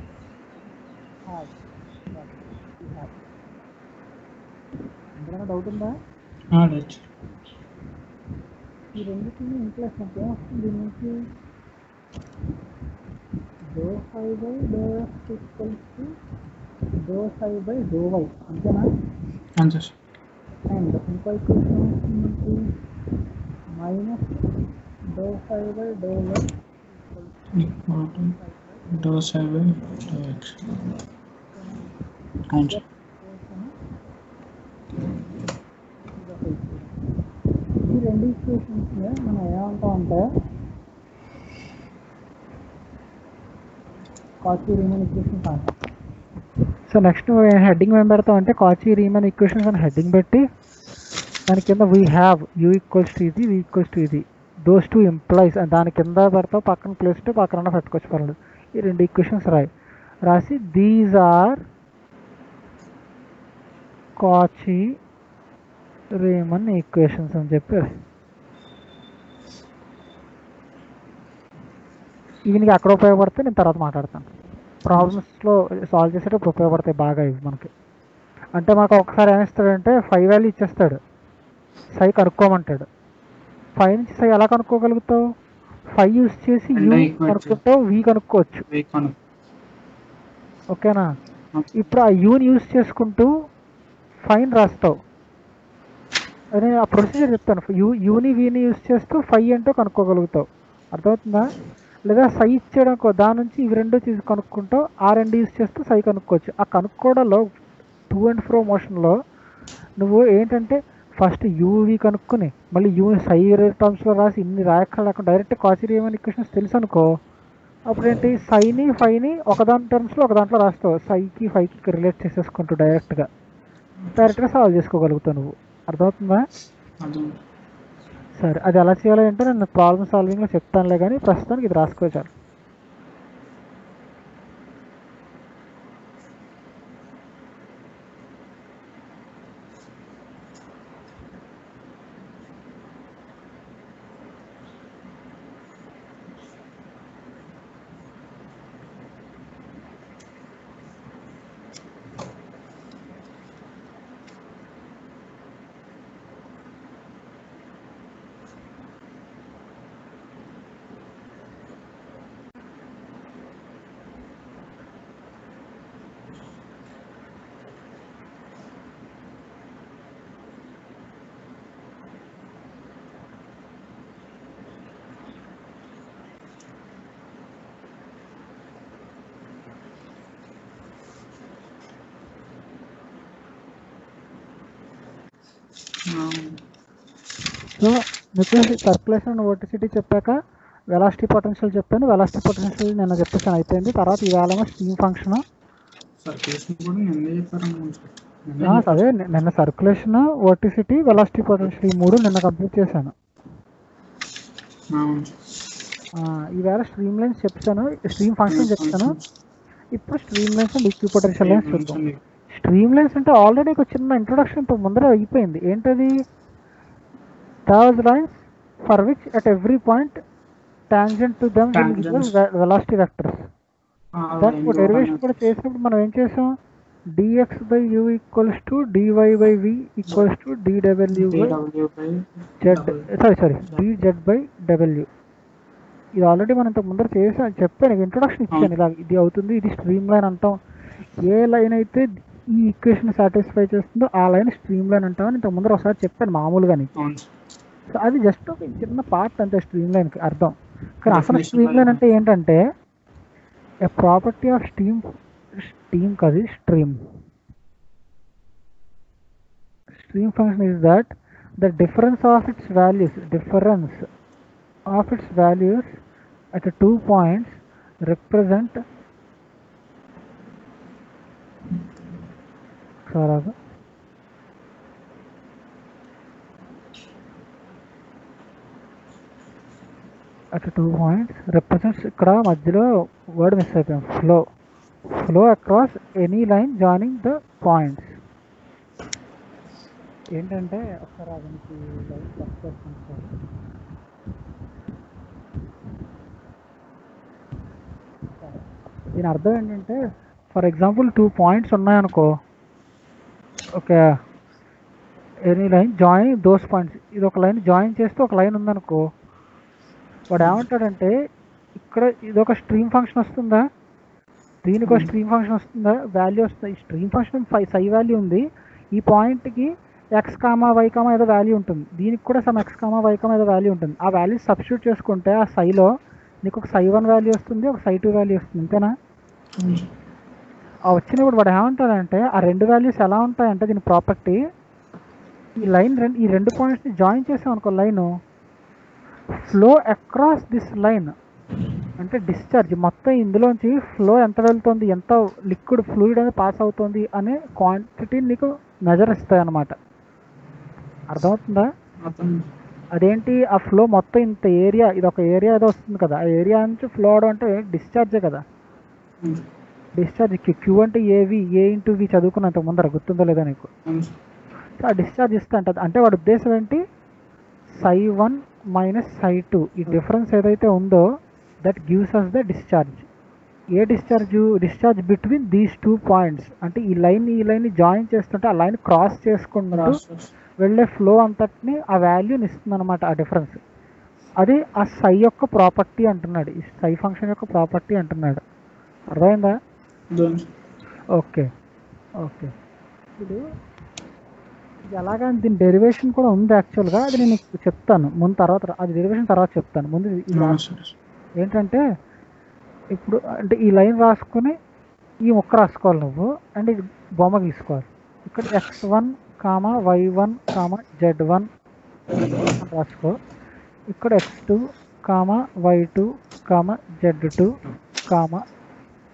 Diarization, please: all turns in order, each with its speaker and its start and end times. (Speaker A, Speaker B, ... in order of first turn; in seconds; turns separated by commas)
Speaker A: 1.3-1.5, Speaker A: 2.1-3.2, Speaker A: 5.2-5.9, Speaker B: 6.5-7.0, Speaker A: 8.9-11.2, Speaker A: 13.7-16.1, Speaker A: 17.0-18.9, Speaker B: 19.6-19.9, Speaker A: 20.7-22.7, Speaker A: 23.7-24.4, Speaker A: 25.1-26.5, Speaker A: 27.1-27.5, Speaker B: 27.5-28.4, Speaker A: 28.3-29.2, Speaker B: 28.9-30.6, Speaker A: 31.5-31.9, Speaker B: 32.5-32.8, Speaker A: 32.6-33.7, Speaker A: 36.2-36.9, Speaker A: 37.8-40.2, Speaker A: 44.4-45.7, Speaker A: 46.9-50.4, Speaker A: 51.5-59.7, Speaker A: 60.2-61.6, Speaker A: 64.2-64.9, Speaker A: 66.2-67.9, Speaker A: 72.5-74.2, Speaker A: 74.8-77.7, Speaker A: 78.5-81.0, Speaker A: 82.0-82.8, Speaker A: 83.8-85.2, Speaker A: 86.0-88.7, Speaker B: 86.7-87.6, Speaker B: 88.7-89.2, Speaker A: 90.7-91.1, Speaker B: 91.5-91.8, Speaker A: 91.7-93.3, Speaker A: 94.3-94.9, Speaker A: 96.5-101.5, Speaker A: 102.1-107.5, Speaker A: 108.1-109.1, Speaker A: 110.0-117.1, Speaker A: 117.9-123.3, Speaker A: 124.1-126.4, Speaker B: 127.0-127.4, Speaker A: 128.4-132.3, Speaker B: 186.1-186.6, Speaker A: 187.8-190.3, Speaker A: 190.9-195.4, Speaker B: 196.2-199.0, Speaker A: 198.6-203.1, Speaker B: 204.9-205.3, Speaker A: 206.2-209.1, Speaker B: 208.5-209.2, Speaker A: 209.9-212.0, Speaker B: 211.4-212.2, Speaker A: 212.5-216.2, Speaker A: 217.7-220.2, Speaker A: 220.9-223.4, Speaker B: 221.7-222.3, Speaker B: 224.2-225.4, Speaker A: 224.4-226.5, Speaker A: 227.1-231.5, Speaker B: 231.1-233.1, Speaker A: 232.6-235.1, Speaker A: 236.2-240.6, Speaker A: 241.2-246.9, Speaker B: 246.9-247.3, Speaker A: 247.9-252.6, Speaker B: 251.1-252.0, Speaker A: 253.8-255.0, Speaker A: 255.6-256.9, Speaker A: 260.0-264.0, Speaker A: 264.9-266.0, Speaker A: 266.5-268.8, Speaker A: 273.1-273.5, Speaker A: 280.5-284.4, Speaker A: 285.1-288.1, Speaker A: 290.3-293.3, Speaker A: 298.4-298.6, Speaker A: 299.1-300.0, Speaker A: 300.5-302.3, Speaker A: 303.8-304.1, Speaker A: 305.4-309.0, Speaker A: 310.3-311.1, Speaker A: 311.8-313.6, Speaker A: 314.6-325.9, Speaker B: 314.8-315.1, Speaker A: 326.4-328.9, Speaker B: 329.6-329.9, Speaker A: 330.9-334.4, Speaker A: 335.6-338.1, Speaker A: 339.4-341.1, Speaker A: 342.0-349.7, Speaker A: 351.1-351.7, Speaker B: 352.0-352.5, Speaker A: 352.9-358.4, Speaker A: 360.0-363.7, Speaker B: 363.9-364.1, Speaker A: 364.8-366.8, Speaker A: 367.8-371.0, Speaker A: 371.6-373.1, Speaker A: 373.7-380.0, Speaker B: 379.7-380.3, Speaker A: 380.6-383.6, Speaker A: 384.4-388.4, Speaker A: 389.1-389.5, Speaker B: 390.1-390.5, Speaker A: 391.2-391.5, Speaker A: 392.2-392.5, Speaker A: 394.9-400.6, Speaker B: 400.3-400.9, Speaker A: 401.4-401.8, Speaker A: 402.9-404.5, Speaker A: 405.3-411.5, Speaker A: 412.6-413.2, Speaker A: 413.9-417.6, Speaker A: 418.1-418.4